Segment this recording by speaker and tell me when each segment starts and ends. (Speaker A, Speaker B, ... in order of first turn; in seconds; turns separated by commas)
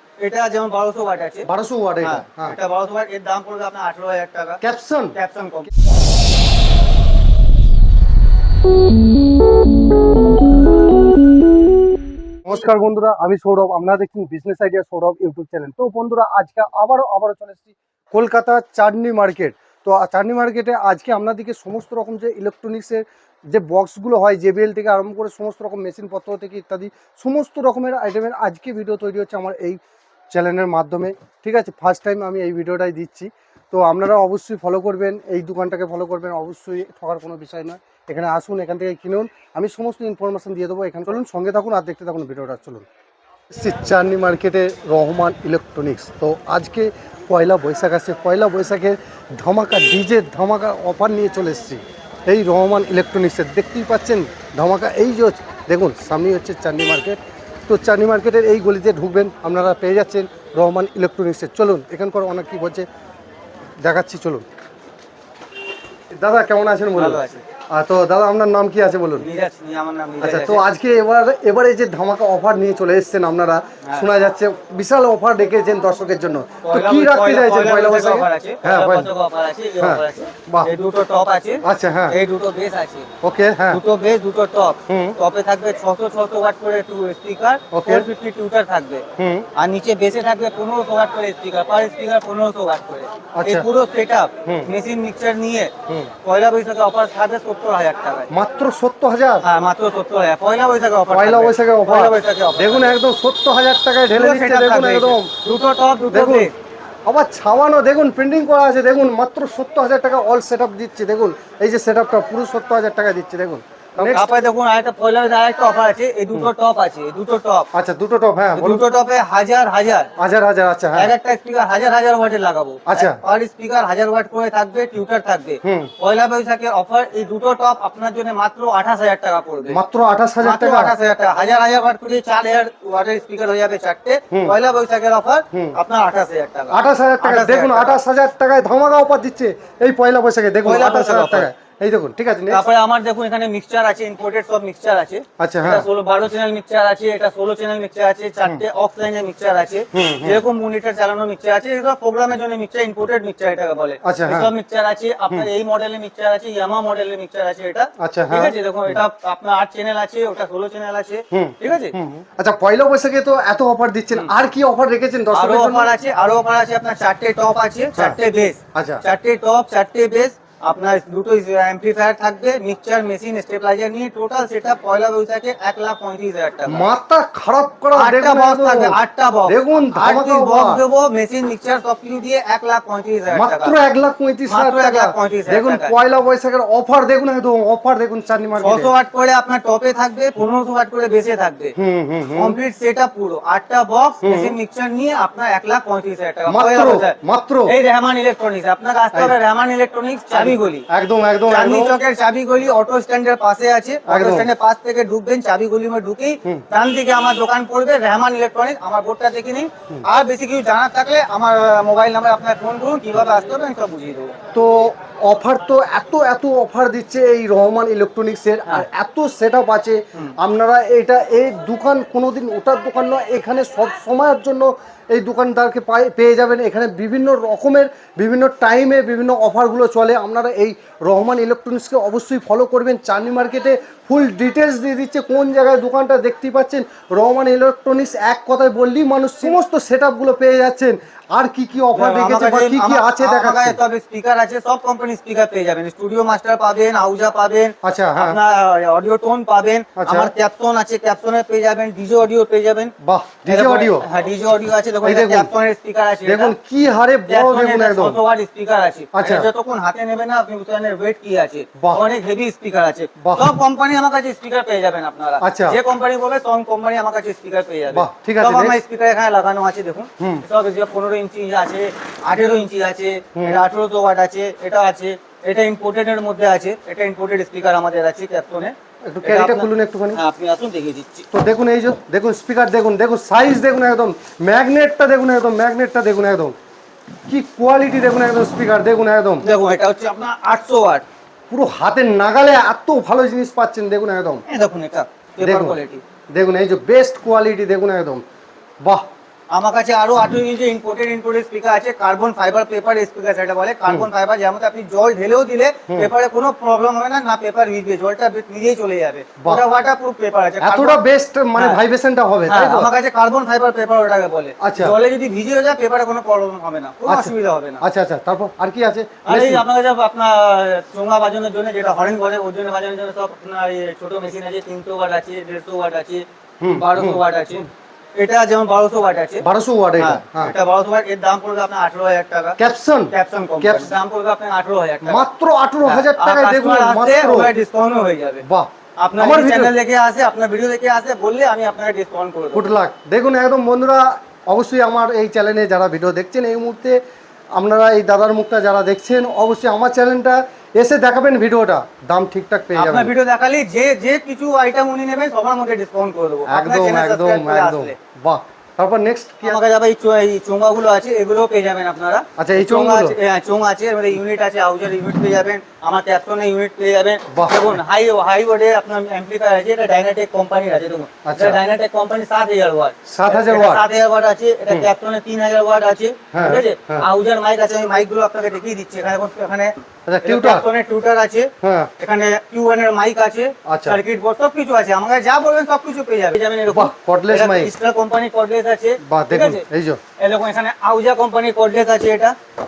Speaker A: 0.2-1.5, Speaker B: 1.4-2.6, Speaker A: 2.0-4.6, Speaker B: 4.6-5.2, Speaker A: 5.1-5.7, Speaker B: 12.4-29.8, Speaker B: 30.3-42.9, Speaker B: 43.5-62.9, Speaker B: 63.8-64.5, Speaker B: 66.1-69.2, Speaker A: 67.0-67.4, Speaker A: 69.2-70.6, Speaker B: 70.2-79.1, Speaker A: 76.6-83.1, Speaker B: 79.8-80.7, Speaker B: 81.6-82.2, Speaker B: 83.2-83.8, Speaker A: 83.7-89.0, Speaker B: 84.9-85.2, Speaker B: 87.7-88.1, Speaker B: 89.2-89.5, Speaker A: 89.6-95.7, Speaker B: 93.4-93.7, Speaker A: 96.2-98.3, Speaker B: 98.3-99.4, Speaker A: 99.4-103.0, Speaker B: 101.1-105.3, Speaker A: 104.1-106.5, Speaker B: 106.1-106.5, Speaker B: 107.1-114.3, Speaker A: 114.0-117.7, Speaker B: 117.7-118.8, Speaker A: 118.6-120.1, Speaker B: 120.2-121.1, Speaker A: 121.0-129.8, Speaker B: 122.9-123.2, Speaker B: 125.6-125.9, Speaker B: 129.7-130.9, Speaker A: 130.4-138.0, Speaker B: 135.5-135.8, Speaker B: 136.7-142.6, Speaker A: 140.7-141.5, Speaker A: 142.5-161.9, Speaker B: 145.4-145.9, Speaker B: 149.9-150.4, Speaker B: 154.0-154.5, Speaker B: 158.0-159.0, Speaker B: 161.3-165.9, Speaker A: 165.3-176.8, Speaker B: 168.7-169.0, Speaker B: 176.7-180.8, Speaker A: 177.9-183.8, Speaker B: 183.3-188.9, Speaker A: 184.5-185.9, Speaker A: 188.6-191.8, Speaker B: 191.8-192.6, Speaker A: 192.3-197.2, Speaker B: 194.2-194.6, Speaker B: 196.5-197.7, Speaker A: 197.7-200.9, Speaker B: 200.3-202.0, Speaker A: 201.5-214.3, Speaker B: 204.1-204.5, Speaker B: 214.5-243.8, Speaker A: 241.9-252.9, Speaker B: 247.8-248.4, Speaker B: 250.0-250.3, Speaker B: 253.0-254.1, Speaker A: 253.5-256.5, Speaker B: 255.0-255.5, Speaker B: 256.2-258.2, Speaker A: 257.3-281.2, Speaker B: 259.1-259.5, Speaker B: 263.2-263.5, Speaker B: 265.4-265.8, Speaker B: 267.9-268.8, Speaker B: 273.3-273.6, Speaker B: 279.1-280.2, Speaker B: 281.3-286.5, Speaker B: 287.3-289.4, Speaker A: 289.4-291.1, Speaker B: 291.5-294.4, Speaker A: 294.5-296.0, Speaker B: 295.4-295.8, Speaker B: 296.3-298.2, Speaker B: 298.8-299.1, Speaker A: 299.5-311.0, Speaker B: 310.6-312.9, Speaker A: 312.5-317.8, Speaker B: 314.6-314.9, Speaker B: 317.0-319.6, Speaker A: 319.2-326.2, Speaker B: 326.6-327.2, Speaker A: 326.8-329.4, Speaker B: 329.4-330.5, Speaker A: 330.0-332.6, Speaker B: 332.6-333.9, Speaker A: 333.1-335.2, Speaker B: 335.1-337.5, Speaker A: 335.9-338.4, Speaker B: 338.4-339.7, Speaker A: 339.0-342.7, Speaker B: 342.5-347.0, Speaker B: 347.5-353.1, Speaker A: 352.7-357.9, Speaker B: 356.5-359.6, Speaker A: 359.4-389.6, Speaker B: 362.4-363.1, Speaker B: 367.3-367.8, Speaker B: 371.2-371.6, Speaker B: 373.1-373.8, Speaker B: 376.3-377.1, Speaker B: 380.1-380.6, Speaker B: 381.6-381.9, Speaker B: 383.7-384.0, Speaker B: 386.7-387.7, Speaker B: 389.0-390.0, Speaker A: 390.2-392.3